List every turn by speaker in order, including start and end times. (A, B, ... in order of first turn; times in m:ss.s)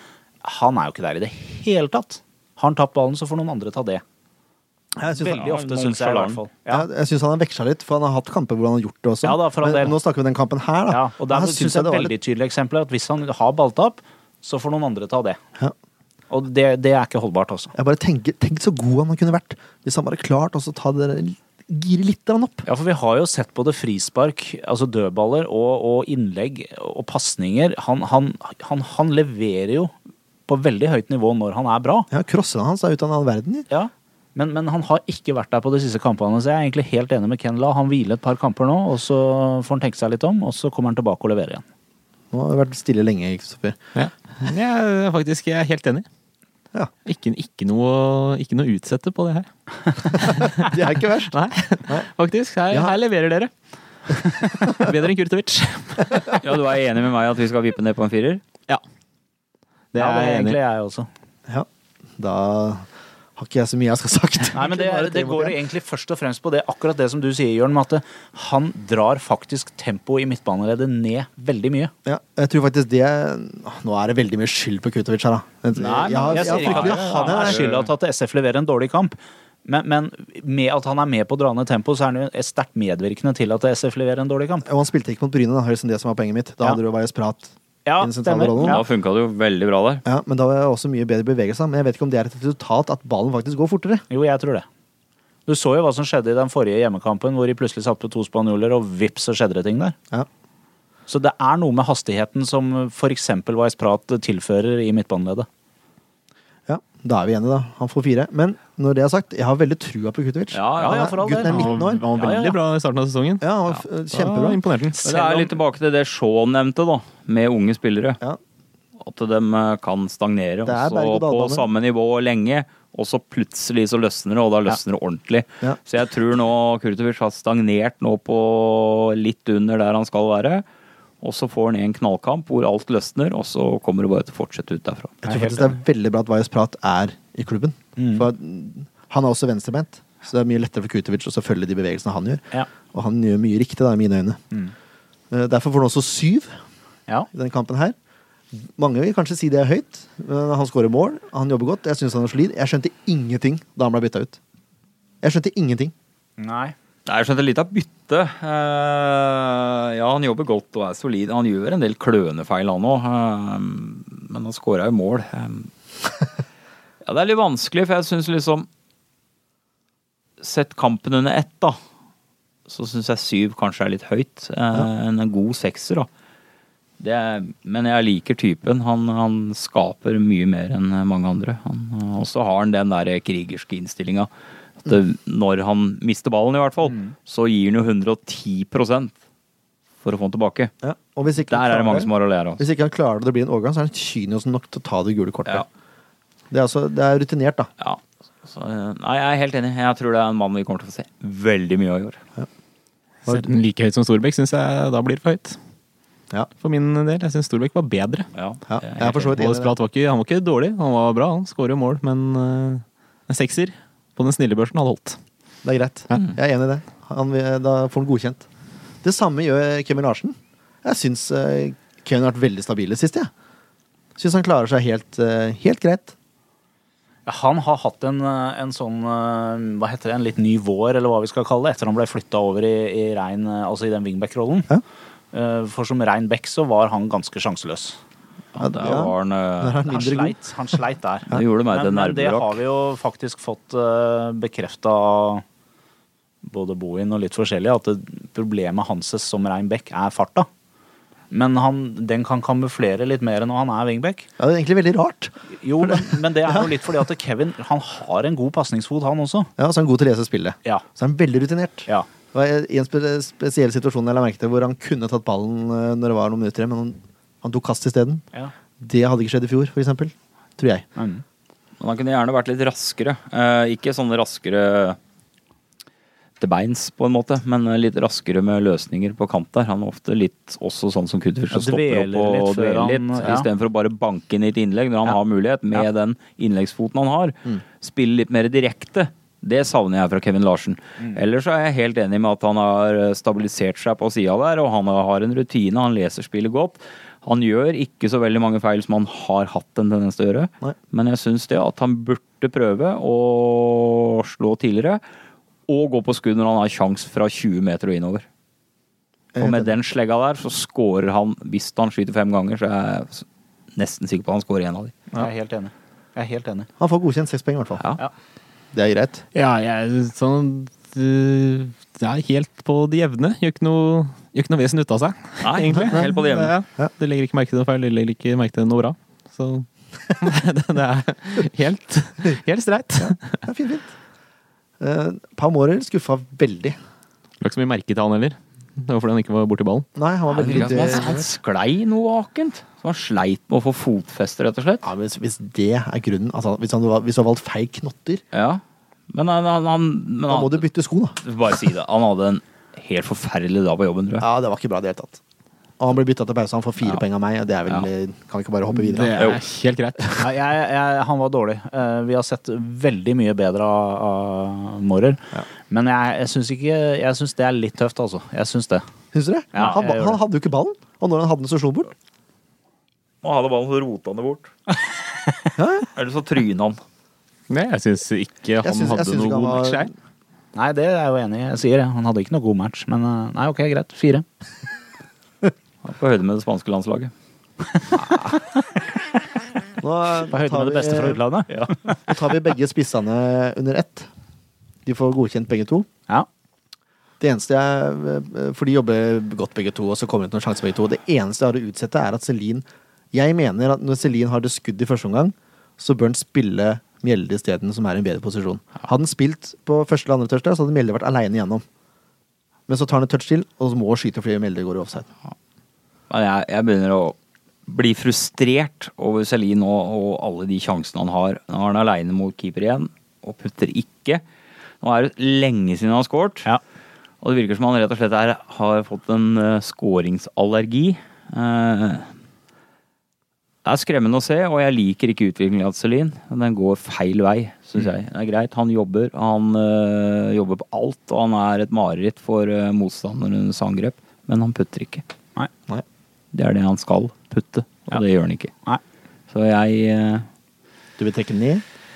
0:00.4-0:04.0 A
0:05.0-0:05.4 B
0:05.1-0:06.9 A
0:05.3-0:06.4 C
0:06.7-0:12.1 B
0:09.2-0:10.0 A
0:10.9-0:15.4 A
0:16.3-0:17.7 A
0:17.8-0:22.6 B
0:22.6-0:29.9 A
0:30.5-0:32.1 A
0:32.1-0:33.7 B
0:33.7-0:41.6 A
0:42.3-0:43.8 B
0:44.0-0:46.1 D
0:47.0-0:53.5 D
0:50.2-0:51.4 B
0:54.2-0:56.3 D
0:56.1-0:56.4 B
0:56.4-0:58.4 C
0:59.9-1:00.6 D
1:00.0-1:01.1 A
1:02.2-1:02.9 B
1:03.4-1:05.6 B
1:04.5-1:11.9 A
1:12.0-1:17.6 B
1:15.8-1:17.9 C
1:16.2-1:24.7 A
1:24.7-1:28.8 B
1:27.9-1:28.8 A
1:28.6-1:30.0 C
1:30.0-1:34.0 B
1:34.1-1:34.7 A
1:35.5-1:40.0 A
1:41.1-1:45.5 A
1:46.7-1:52.1 B
1:50.5-1:51.1 C
1:50.8-1:52.6 A
1:51.3-1:53.4 D
1:53.4-1:54.6 B
1:54.1-1:55.0 D
1:55.0-1:55.6 A
1:55.0-1:58.2 C
1:59.0-2:10.6 C
2:00.7-2:01.6 B
2:11.2-2:15.2 C
2:15.2-2:24.4 B
2:15.3-2:15.7 A
2:18.0-2:18.3 A
2:25.3-2:26.6 B
2:27.3-2:28.0 B
2:28.5-2:34.4 B
2:35.2-2:35.9 B
2:36.4-2:36.8 A
2:37.1-2:45.7 C
2:47.0-2:48.7 C
2:50.4-2:51.8 C
2:52.7-2:56.1 C
2:57.0-3:04.3 C
3:04.8-3:09.1 C
3:10.0-3:10.7 C
3:10.8-3:15.7 B
3:11.5-3:12.6 C
3:16.5-3:17.7 B
3:17.8-3:22.2 C
3:23.3-3:25.6 D
3:26.6-3:28.3 D
3:28.3-3:29.4 C
3:28.7-3:29.7 B
3:29.2-3:35.2 D
3:35.6-3:38.5 B
3:39.0-3:43.3 B
3:44.2-3:46.2 B
3:47.3-3:54.7 A
3:55.3-3:58.0 A
3:58.5-3:59.8 C
3:58.6-4:00.4 B
3:59.9-4:05.4 A
4:01.3-4:02.6 C
4:06.4-4:10.5 A
4:11.3-4:14.3 A
4:14.4-4:15.3 B
4:15.5-4:19.5 A
4:15.9-4:16.7 B
4:19.6-4:28.2 B
4:28.8-4:30.9 B
4:31.0-4:31.2 A
4:31.8-4:35.0 C
4:36.4-5:05.0 C
4:41.5-4:43.5 A
5:05.7-5:08.3 C
5:09.4-5:09.8 B
5:09.4-5:15.0 C
5:15.2-5:16.7 A
5:16.8-5:17.8 B
5:18.7-5:19.2 B
5:19.3-5:33.4 D
5:25.4-5:26.6 C
5:33.0-5:33.9 B
5:34.8-5:36.8 B
5:37.4-5:39.9 D
5:40.0-5:41.3 B
5:40.3-5:44.9 C
5:44.8-5:48.2 B
5:48.3-5:50.7 C
5:50.3-5:51.2 B
5:51.2-5:54.3 C
5:54.2-5:55.2 B
5:55.8-5:59.2 B
5:58.7-6:00.4 D
6:00.2-6:08.8 A
6:09.1-6:11.9 B
6:09.5-6:10.2 A
6:13.2-6:14.5 C
6:15.6-6:15.9 B
6:15.9-6:16.8 C
6:17.5-6:19.9 D
6:18.6-6:19.9 B
6:20.6-6:24.3 A
6:25.8-6:27.1 C
6:27.9-6:28.5 A
6:29.8-6:31.2 B
6:30.3-6:32.0 A
6:32.0-6:34.1 B
6:34.9-6:35.9 B
6:37.2-6:51.6 B
6:52.7-6:55.1 B
6:56.1-6:57.2 C
6:57.7-7:04.2 C
7:04.8-7:06.5 C
7:07.2-7:12.1 C
7:13.6-7:25.0 C
7:26.3-7:28.5 C
7:29.3-7:30.3 C
7:31.0-7:31.6 B